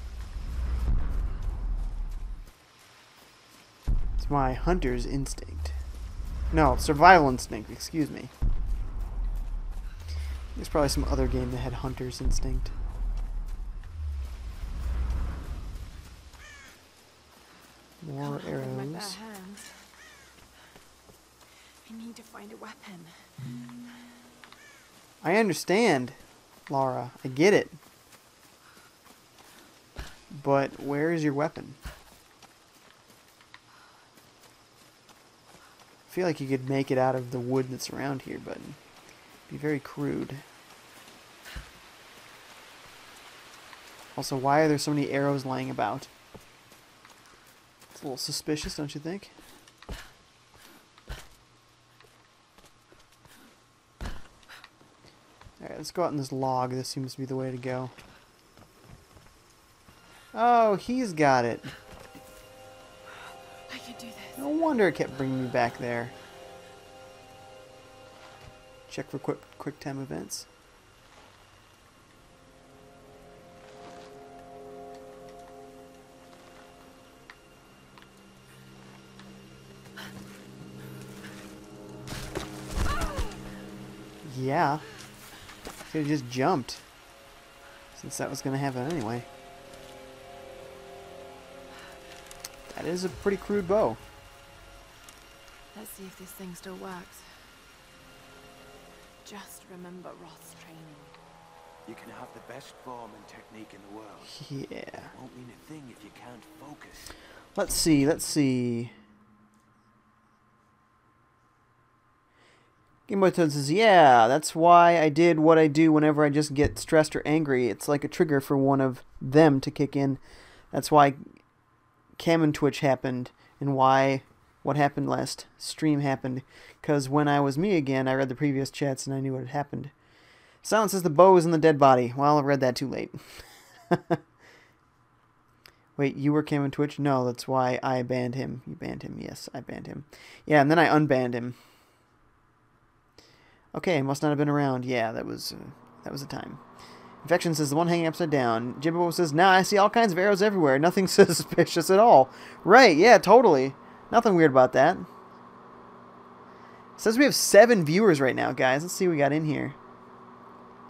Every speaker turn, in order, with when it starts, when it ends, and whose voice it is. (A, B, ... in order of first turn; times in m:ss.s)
0:04.2-0:05.8 A
0:06.5-0:08.3 A
0:10.5-0:12.7 A
0:18.0-0:19.2 A
0:18.2-0:20.0 B
0:21.8-0:23.3 B
0:25.2-0:26.2 A
0:26.7-0:27.8 A
0:30.3-0:31.8 A
0:36.1-0:38.8 A
0:39.5-0:40.4 A
0:44.1-0:46.1 A
0:47.9-0:49.3 A
0:55.6-0:57.9 A
1:00.3-1:01.7 A
1:03.6-1:04.4 B
1:04.4-1:06.1 A
1:08.9-1:10.5 A
1:24.2-1:24.8 A
1:25.9-1:26.8 A
1:28.0-1:29.3 A
1:32.7-1:34.0 A
1:35.7-1:37.6 B
1:39.2-1:41.2 B
1:41.8-1:44.3 C
1:44.2-1:45.1 A
1:45.1-1:47.1 C
1:47.5-1:48.9 A
1:53.1-2:00.2 A
2:00.7-2:01.3 A
2:02.2-2:09.9 A
2:10.6-2:14.2 A
2:16.0-2:21.6 A
2:23.7-2:26.6 A
2:27.2-2:35.1 A
2:37.0-2:39.8 A